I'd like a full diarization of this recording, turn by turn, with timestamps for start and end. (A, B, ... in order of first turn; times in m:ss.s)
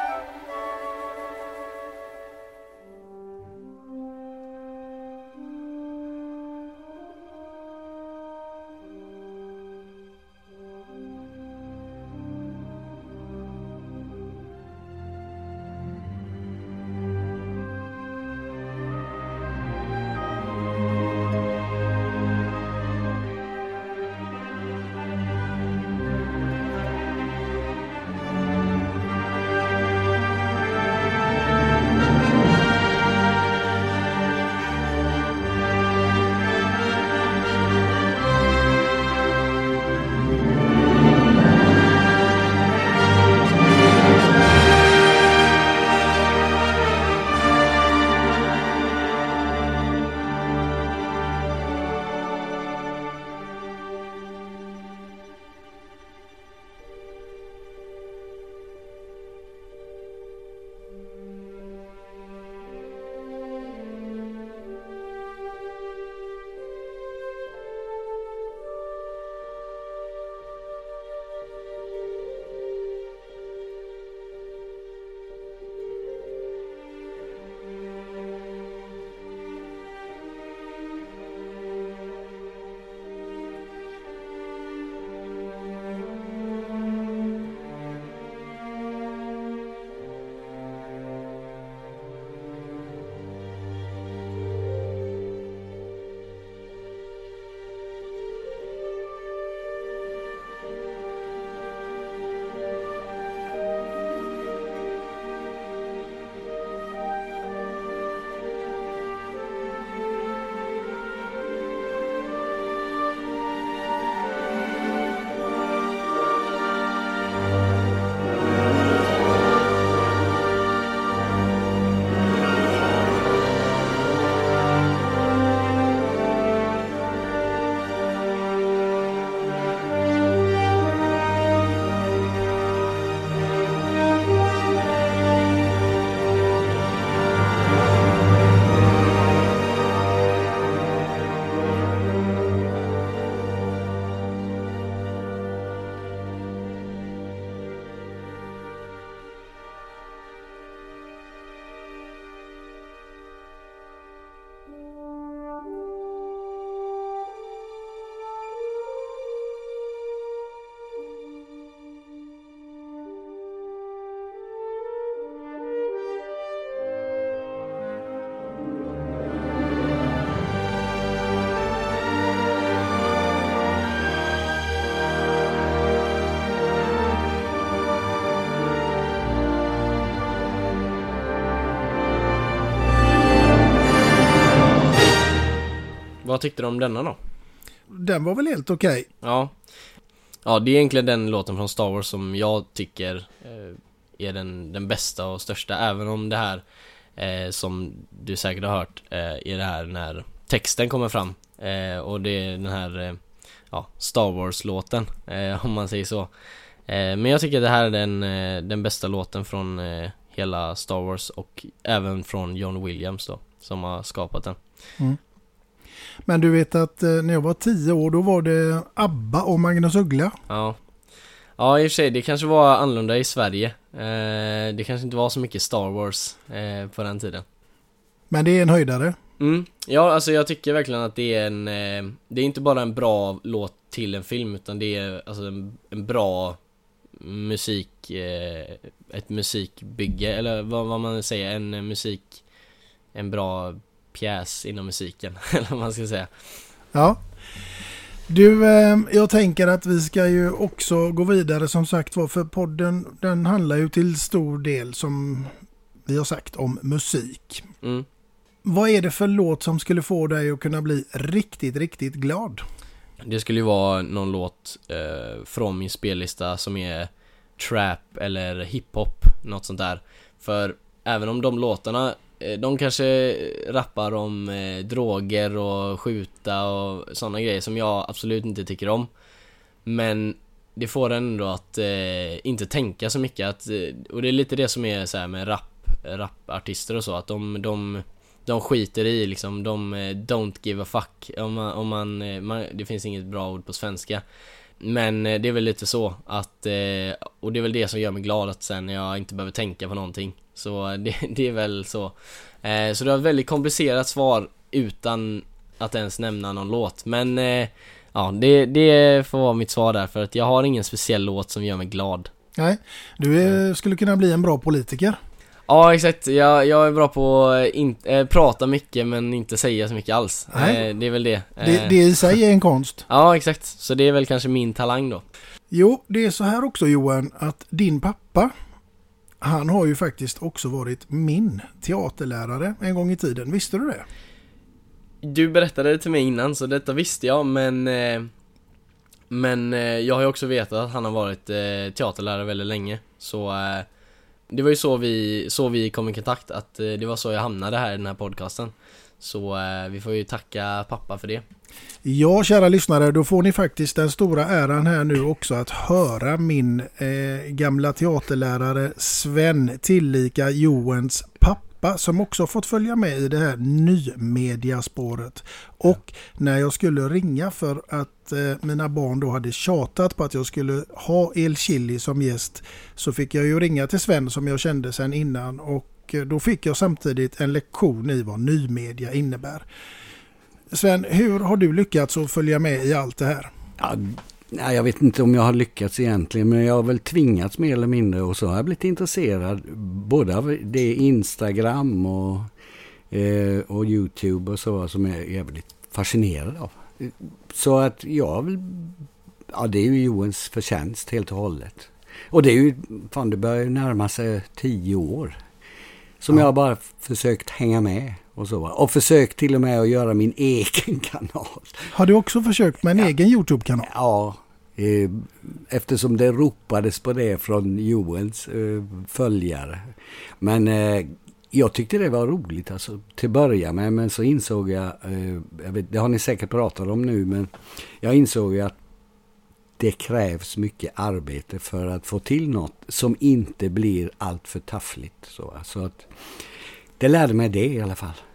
3:06.2-3:07.2 A
3:07.9-3:09.1 B
3:09.2-3:09.6 A
3:10.4-3:16.6 A
3:17.2-3:23.2 A
3:23.7-3:26.3 A
3:26.9-3:34.6 A
3:36.3-3:40.4 B
3:40.5-3:40.8 A
3:41.6-3:47.4 A
3:48.3-3:49.2 B
3:49.4-3:56.6 A
3:57.2-4:02.4 A
4:03.1-4:06.3 A
4:06.9-4:07.2 B
4:08.3-4:15.5 B
4:16.1-4:17.6 B
4:18.6-4:22.6 B
4:23.2-4:39.1 A
4:39.8-4:54.2 A
4:54.8-5:12.3 A
5:12.6-5:15.2 B
5:15.7-5:22.0 A
5:20.5-5:20.8 B
5:21.6-5:23.0 B
5:23.1-5:25.3 A
5:25.7-5:28.5 B
5:29.4-5:34.0 B
5:35.2-5:38.3 A
5:39.3-5:43.9 A
5:44.5-5:51.4 A
5:52.0-6:19.6 B
6:20.7-6:23.5 B
6:23.8-6:32.5 C
6:33.1-6:45.4 C
6:46.2-6:51.9 C
6:51.9-6:53.9 B
6:53.8-6:59.9 C
7:00.4-7:08.8 C
7:09.8-7:16.1 C
7:17.0-7:18.2 C